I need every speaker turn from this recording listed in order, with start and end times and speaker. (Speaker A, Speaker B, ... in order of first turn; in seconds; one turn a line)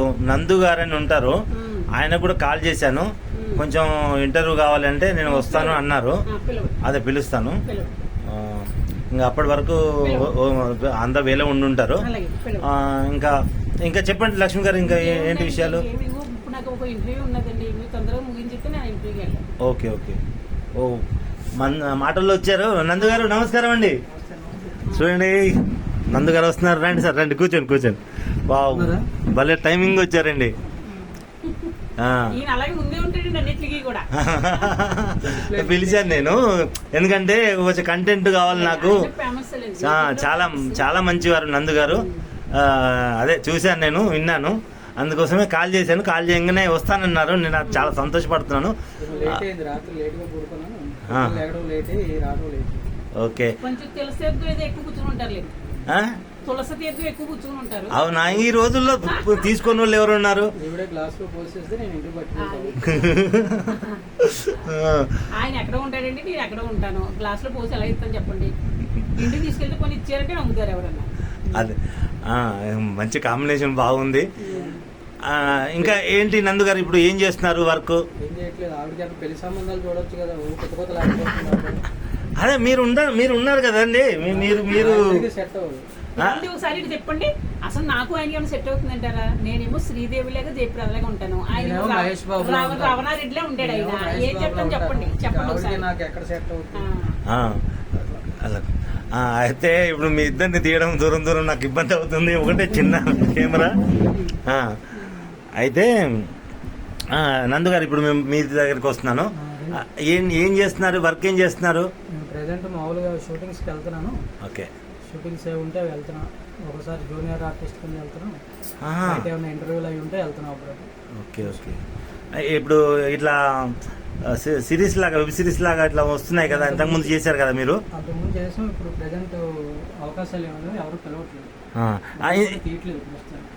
Speaker A: 0.3-1.3
Speaker B: 1.5-1.9
Speaker A: 1.9-6.2
Speaker B: 3.3-3.6
Speaker B: 5.2-6.8
Speaker A: 6.8-7.6
Speaker B: 7.6-8.0
Speaker A: 8.3-12.1
Speaker B: 10.0-10.3
Speaker B: 12.0-12.7
Speaker A: 12.6-15.8
Speaker B: 14.8-19.4
Speaker A: 19.6-20.2
Speaker A: 20.8-21.0
Speaker A: 21.6-24.0
Speaker B: 23.0-23.3
Speaker C: 24.1-24.8
Speaker A: 24.9-25.5
Speaker A: 26.1-30.5
Speaker C: 28.7-29.1
Speaker B: 30.8-31.8
Speaker A: 32.0-32.3
Speaker B: 32.3-34.7
Speaker A: 34.2-39.1
Speaker C: 35.2-36.4
Speaker B: 38.5-40.8
Speaker A: 39.8-48.7
Speaker B: 41.8-42.3
Speaker B: 47.6-48.0
Speaker C: 49.0-52.9
Speaker A: 51.1-51.4
Speaker A: 53.2-53.5
Speaker B: 53.6-55.5
Speaker A: 55.9-56.1
Speaker B: 56.5-58.0
Speaker A: 57.9-60.5
Speaker B: 59.0-59.5
Speaker C: 60.5-63.0
Speaker B: 62.4-64.1
Speaker A: 63.0-63.7
Speaker A: 64.2-65.1
Speaker B: 65.3-68.5
Speaker B: 69.1-71.7
Speaker A: 72.3-74.2
Speaker B: 74.4-74.8
Speaker C: 74.5-74.8
Speaker A: 75.2-78.0
Speaker C: 78.2-81.8
Speaker A: 82.4-85.2
Speaker C: 84.2-85.8
Speaker B: 86.2-95.8
Speaker C: 91.5-93.0
Speaker C: 93.6-96.8
Speaker B: 96.7-97.2
Speaker A: 97.3-103.8
Speaker B: 103.9-104.4
Speaker A: 104.5-104.8
Speaker B: 104.9-105.4
Speaker A: 105.6-106.3
Speaker A: 107.1-111.9
Speaker C: 109.3-109.8
Speaker C: 112.1-114.2
Speaker A: 114.4-114.7
Speaker C: 115.0-118.4
Speaker A: 118.8-119.3
Speaker C: 119.0-120.9
Speaker A: 121.2-121.8
Speaker A: 122.3-127.8
Speaker C: 126.4-127.2
Speaker C: 127.9-131.5
Speaker A: 131.7-132.6
Speaker C: 132.2-133.5